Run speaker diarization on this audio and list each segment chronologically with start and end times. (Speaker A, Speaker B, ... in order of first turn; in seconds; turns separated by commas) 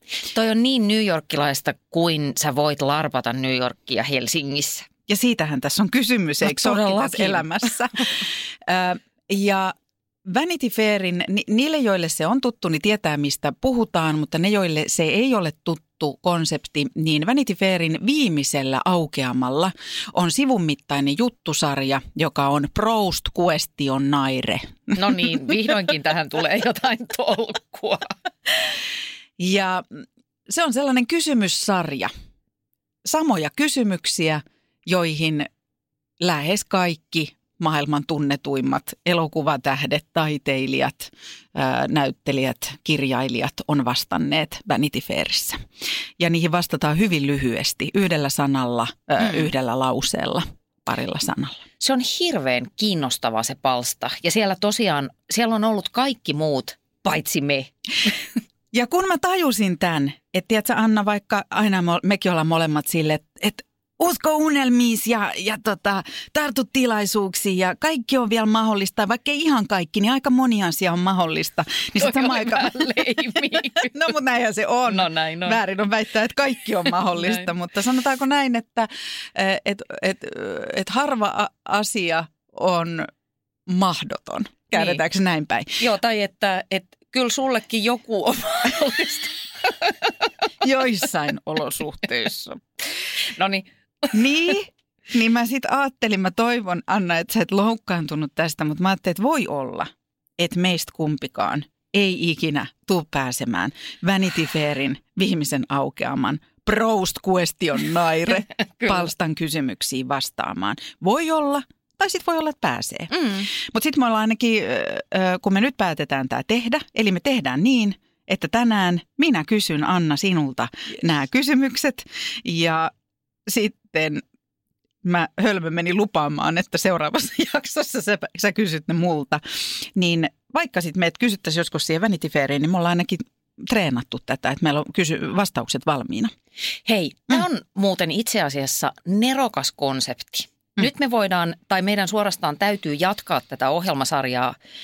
Speaker A: 0.2-4.9, Speaker B: 5.1-25.4, Speaker A: 6.4-7.7, Speaker A: 24.9-28.1, Speaker B: 29.4-32.1, Speaker B: 33.0-35.5, Speaker B: 36.2-45.6, Speaker B: 46.2-51.6, Speaker A: 51.8-58.1, Speaker B: 58.7-72.9, Speaker A: 72.0-73.9, Speaker B: 73.8-83.1, Speaker A: 74.9-75.6, Speaker A: 77.1-77.5, Speaker B: 83.7-85.8, Speaker A: 84.7-85.0, Speaker A: 85.8-90.1, Speaker B: 90.6-92.6, Speaker A: 93.2-94.2, Speaker B: 94.1-122.9, Speaker A: 108.8-109.1, Speaker A: 113.1-113.5, Speaker B: 123.5-124.2, Speaker B: 125.0-136.3, Speaker A: 136.8-144.5